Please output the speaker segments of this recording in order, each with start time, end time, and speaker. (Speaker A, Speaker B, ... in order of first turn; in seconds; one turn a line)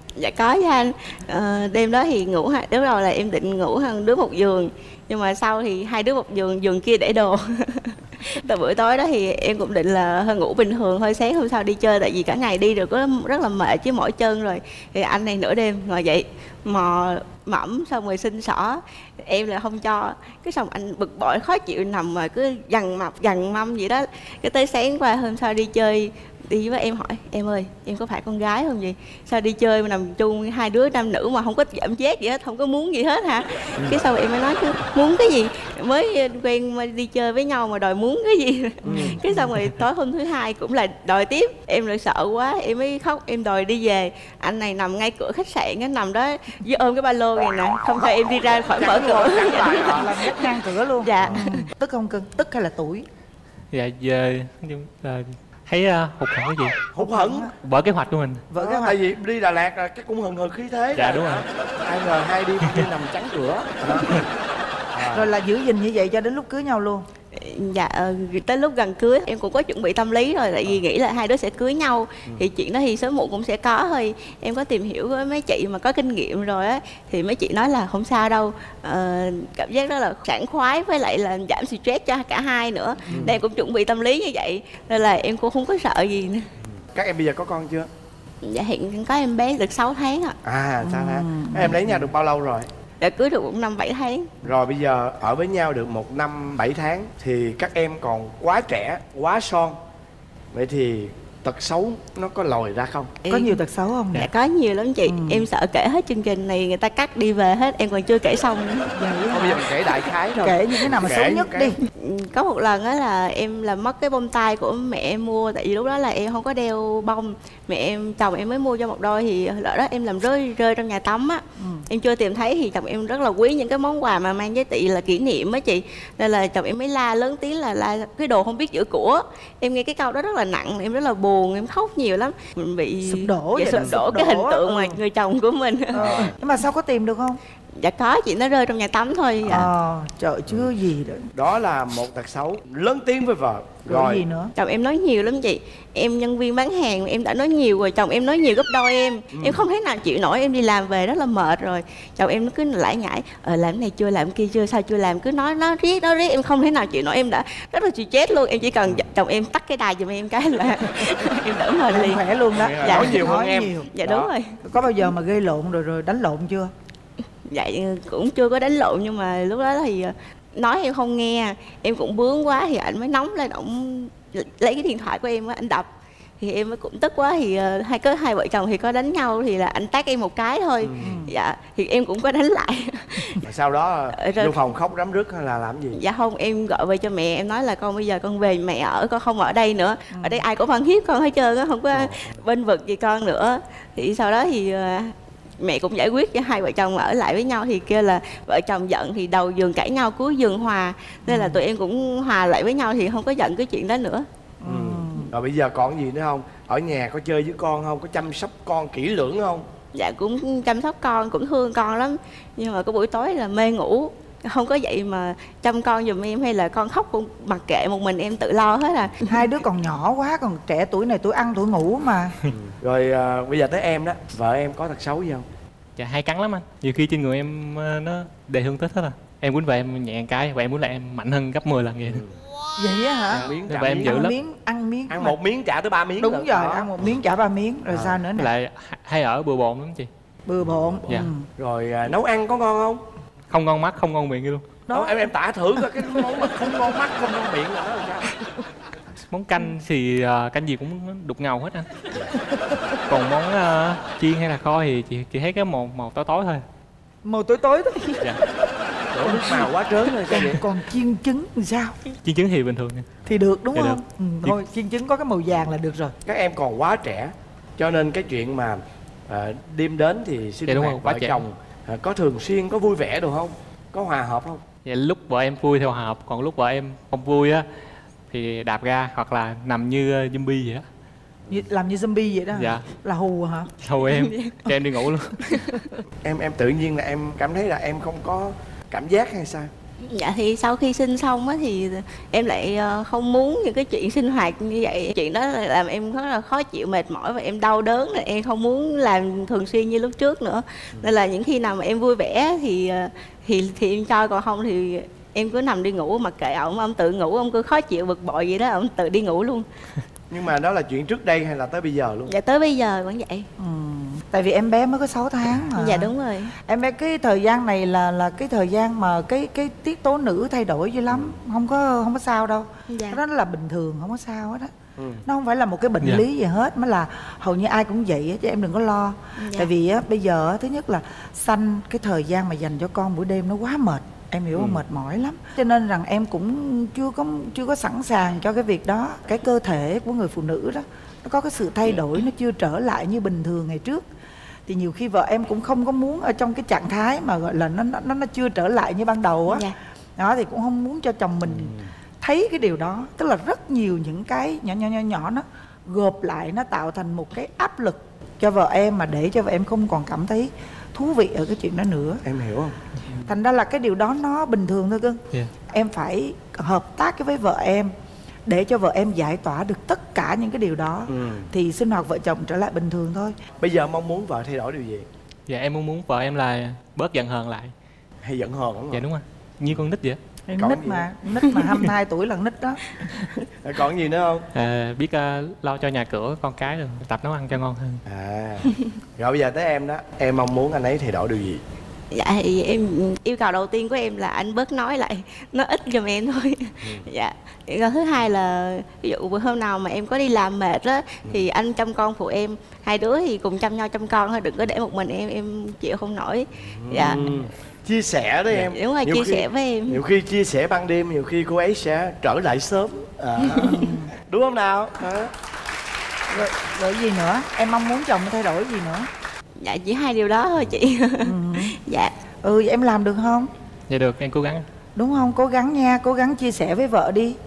Speaker A: 0.2-51.6
Speaker B: 38.8-39.5
Speaker C: 38.9-39.2
Speaker C: 48.8-50.3
Speaker B: 49.8-53.1
Speaker C: 51.2-51.6
Speaker D: 53.7-56.8
Speaker C: 57.0-57.5
Speaker B: 57.0-57.5
Speaker D: 57.5-58.5
Speaker B: 58.5-59.0
Speaker C: 58.5-64.3
Speaker D: 61.0-61.5
Speaker C: 64.9-65.3
Speaker B: 65.1-67.1
Speaker A: 67.3-86.5
Speaker C: 83.1-83.4
Speaker C: 86.8-87.9
Speaker A: 88.4-90.4
Speaker C: 90.4-92.7
Speaker B: 90.8-91.8
Speaker A: 93.0-94.3
Speaker C: 94.4-99.8
Speaker C: 100.5-103.1
Speaker A: 103.2-103.6
Speaker B: 103.3-104.3
Speaker A: 104.1-109.0
Speaker B: 105.0-105.5
Speaker B: 108.9-109.7
Speaker C: 109.3-111.8
Speaker B: 110.3-111.8
Speaker A: 112.0-136.2
Speaker B: 121.6-121.9
Speaker B: 133.0-135.0
Speaker C: 133.7-134.0
Speaker B: 135.9-137.4
Speaker C: 135.9-136.4
Speaker A: 137.8-139.7
Speaker B: 139.5-141.3
Speaker C: 141.3-144.3
Speaker B: 143.9-144.5
Speaker A: 144.6-162.2
Speaker C: 149.3-149.7
Speaker B: 161.9-163.9
Speaker C: 162.5-164.3
Speaker A: 162.8-163.3
Speaker A: 163.9-164.6
Speaker B: 164.6-166.7
Speaker A: 167.5-175.9
Speaker A: 176.4-183.4
Speaker C: 180.8-181.2
Speaker B: 181.0-181.3
Speaker C: 183.4-186.0
Speaker A: 184.1-184.6
Speaker A: 185.9-204.3
Speaker B: 190.1-190.4
Speaker C: 191.9-192.4
Speaker B: 201.3-201.6
Speaker B: 204.6-205.3
Speaker C: 204.6-209.7
Speaker A: 209.9-219.5
Speaker B: 219.3-222.4
Speaker C: 222.5-225.4
Speaker D: 226.0-232.2
Speaker C: 232.1-232.4
Speaker B: 232.8-235.4
Speaker C: 233.3-234.3
Speaker D: 233.3-234.3
Speaker C: 235.1-236.9
Speaker B: 236.2-238.5
Speaker C: 237.9-238.2
Speaker D: 238.3-240.1
Speaker B: 240.5-241.5
Speaker C: 240.6-243.0
Speaker D: 243.5-244.9
Speaker B: 244.9-245.3
Speaker C: 244.9-248.3
Speaker D: 249.3-251.9
Speaker D: 253.1-256.6
Speaker B: 257.2-258.4
Speaker C: 259.1-260.6
Speaker B: 259.2-259.7
Speaker B: 260.3-262.0
Speaker D: 262.2-263.1
Speaker B: 263.3-266.1
Speaker D: 263.7-264.6
Speaker C: 266.3-274.6
Speaker D: 270.7-271.4
Speaker D: 274.9-277.7
Speaker D: 278.3-280.9
Speaker B: 281.5-283.7
Speaker D: 282.5-282.9
Speaker D: 283.8-285.6
Speaker A: 284.0-284.7
Speaker A: 285.4-285.9
Speaker C: 286.2-289.7
Speaker A: 290.0-309.7
Speaker C: 310.3-312.3
Speaker A: 312.3-313.5
Speaker B: 313.6-324.7
Speaker A: 315.8-316.6
Speaker C: 321.1-321.4
Speaker A: 322.9-323.2
Speaker C: 325.0-325.2
Speaker B: 325.3-344.1
Speaker A: 329.4-329.7
Speaker C: 334.5-334.8
Speaker B: 344.7-362.2
Speaker A: 349.5-349.8
Speaker C: 351.4-351.9
Speaker C: 362.2-362.8
Speaker B: 363.2-367.9
Speaker B: 368.5-373.4
Speaker C: 371.1-371.5
Speaker C: 373.6-375.1
Speaker D: 375.5-377.7
Speaker C: 378.2-379.1
Speaker D: 378.9-380.2
Speaker B: 380.5-382.8
Speaker C: 380.6-381.1
Speaker D: 381.4-381.9
Speaker C: 383.4-384.5
Speaker D: 384.5-388.0
Speaker C: 388.1-391.6
Speaker A: 392.1-407.3
Speaker C: 396.8-397.1
Speaker C: 406.6-415.3
Speaker A: 408.5-410.0
Speaker B: 413.6-414.1
Speaker B: 416.3-419.1
Speaker A: 419.6-422.1
Speaker B: 421.2-421.8
Speaker B: 422.4-423.5
Speaker D: 423.9-424.6
Speaker B: 425.0-427.4